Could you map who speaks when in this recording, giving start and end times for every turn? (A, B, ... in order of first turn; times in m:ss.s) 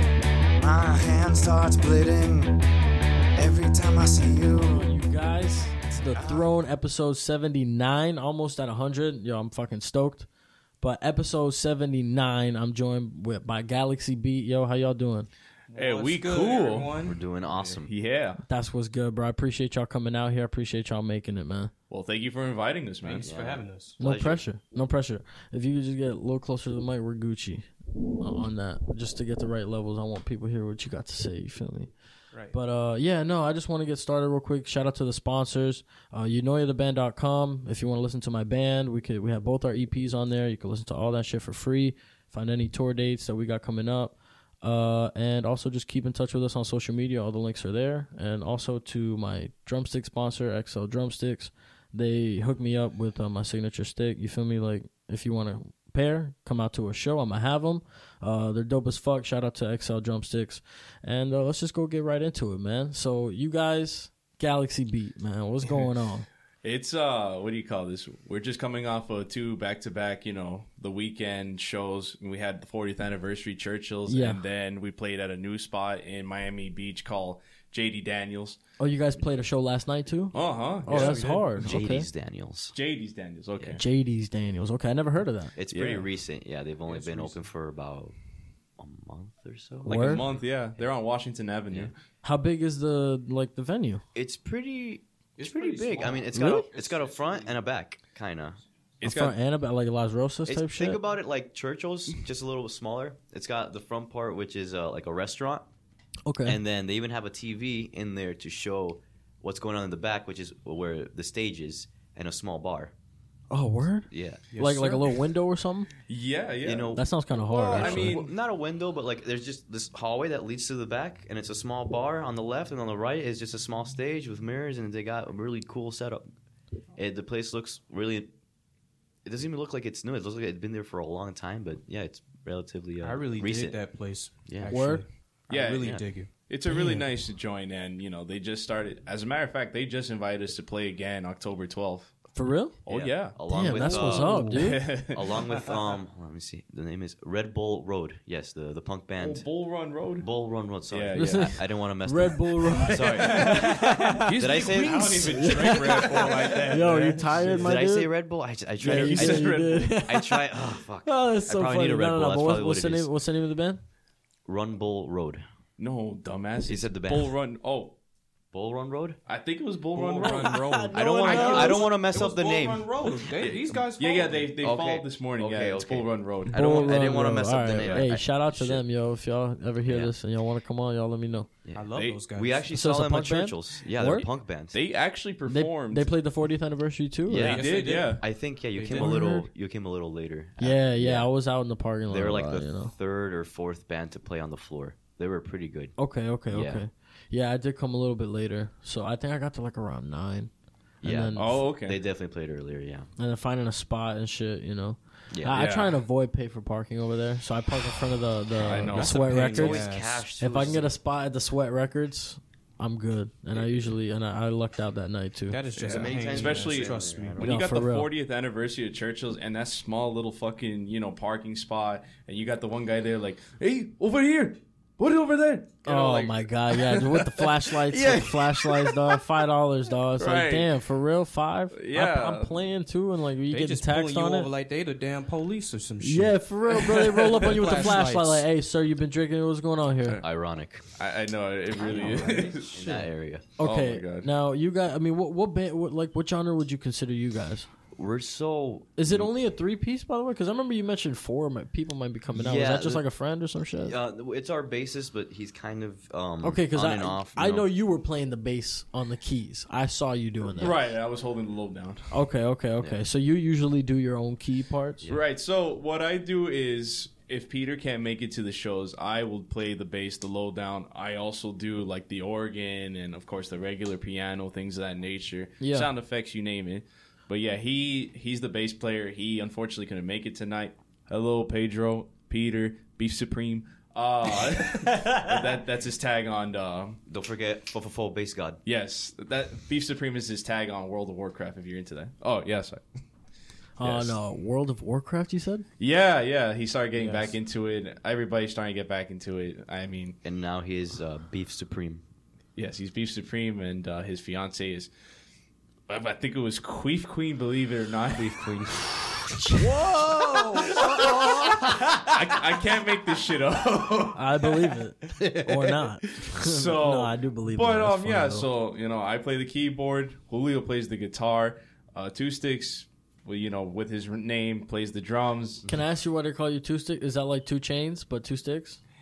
0:00.6-0:02.6 A
0:03.4-0:04.9 A
0:04.6-0:10.3 B
0:06.1-0:06.5 A
0:10.8-0:15.3 B
0:15.7-0:17.8 C
0:15.8-0:17.0 D
0:17.0-0:17.9 E
0:17.8-0:18.4 D
0:18.5-0:21.7 B
0:21.9-0:23.3 D
0:23.0-0:24.0 C
0:23.2-0:24.4 E
0:24.0-0:27.6 B
0:28.2-0:31.9 B
0:32.5-1:06.2 B
1:06.6-1:18.6 D
1:14.1-1:14.4 B
1:18.8-1:22.1 B
1:20.3-1:21.6 D
1:20.9-1:22.7 E
1:22.7-1:23.8 D
1:23.7-1:25.5 B
1:25.6-1:28.1 E
1:25.7-1:26.1 D
1:26.9-1:27.4 C
1:28.8-1:30.4 E
1:29.8-1:30.2 B
1:29.8-1:31.9 D
1:32.2-1:34.0 B
1:34.1-1:38.6 E
1:35.4-1:37.6 C
1:36.3-1:36.7 B
1:39.0-1:39.3 D
1:39.0-1:41.0 B
1:40.4-1:45.7 E
1:46.2-1:46.6 B
1:46.4-1:52.9 E
1:53.5-1:55.9 B
1:54.1-1:54.4 E
1:54.5-1:55.1 C
1:56.1-1:57.0 D
1:56.6-2:06.3 E
1:56.9-1:58.2 B
1:57.7-1:58.3 D
2:07.0-2:08.3 E
2:09.2-2:13.8 E
2:13.0-2:16.3 C
2:14.4-2:14.8 E
2:14.7-2:15.0 B
2:15.5-2:22.2 D
2:16.7-2:17.0 B
2:22.3-2:22.8 B
2:22.8-2:25.6 D
2:22.9-2:29.4 E
2:23.5-2:24.9 B
2:24.1-2:24.6 C
2:29.2-2:30.3 D
2:30.2-2:35.5 E
2:30.9-2:31.5 D
2:31.1-2:34.3 B
2:32.9-2:37.6 D
2:33.9-2:37.7 C
2:35.2-2:38.1 B
2:37.6-2:43.1 E
2:38.8-2:40.5 B
2:38.8-2:40.0 D
2:41.0-2:43.8 B
2:44.4-2:45.4 E
2:45.8-2:48.0 D
2:46.6-2:47.3 E
2:48.5-2:49.2 E
2:49.3-2:51.8 D
2:50.0-2:50.6 C
2:50.2-2:51.9 B
2:50.9-2:53.8 E
2:51.3-2:54.5 C
2:53.4-2:56.6 D
2:54.6-2:58.8 E
2:56.5-3:01.5 B
2:59.8-3:00.1 E
3:01.6-3:04.8 E
3:01.7-3:02.6 C
3:01.9-3:02.2 D
3:02.7-3:04.3 B
3:04.7-3:06.1 D
3:05.5-3:07.6 B
3:07.3-3:11.3 E
3:07.3-3:08.2 C
3:07.4-3:08.2 D
3:08.8-3:09.2 C
3:08.9-3:09.5 B
3:10.6-3:12.9 B
3:12.1-3:15.9 E
3:16.0-3:20.5 B
3:16.5-3:16.8 E
3:21.0-3:23.1 E
3:21.0-3:21.6 B
3:21.4-3:22.0 D
3:23.2-3:29.8 B
3:25.3-3:25.6 E
3:25.5-3:26.0 D
3:28.6-3:29.7 D
3:28.6-3:30.9 E
3:29.6-3:30.2 C
3:30.4-3:35.6 B
3:35.5-3:37.4 C
3:35.8-3:49.2 D
3:35.8-3:37.7 E
3:37.4-3:38.1 B
3:45.8-3:54.5 B
3:50.2-3:50.7 D
3:51.7-3:52.5 D
3:53.5-3:58.4 C
3:56.0-4:00.2 B
4:00.2-4:00.8 E
4:01.0-4:02.8 D
4:01.8-4:03.4 E
4:01.8-4:03.0 C
4:03.6-4:07.7 B
4:03.6-4:04.3 D
4:07.9-4:09.3 E
4:09.0-4:13.9 B
4:12.3-4:13.0 E
4:13.8-4:17.6 E
4:16.4-4:20.9 B
4:20.6-4:22.1 D
4:22.1-4:25.1 B
4:25.1-4:47.0 D
4:35.6-4:35.9 B
4:47.1-4:48.6 E
4:48.6-4:52.8 D
4:53.8-4:55.6 B
4:53.8-4:54.2 D
4:55.8-5:00.2 D
4:57.0-4:57.3 C
5:00.2-5:02.0 E
5:02.6-5:04.9 D
5:05.9-5:08.4 D
5:08.1-5:08.8 C
5:09.4-5:10.8 B
5:10.3-5:11.4 C
5:10.7-5:25.6 D
5:14.1-5:18.5 B
5:25.7-5:28.8 B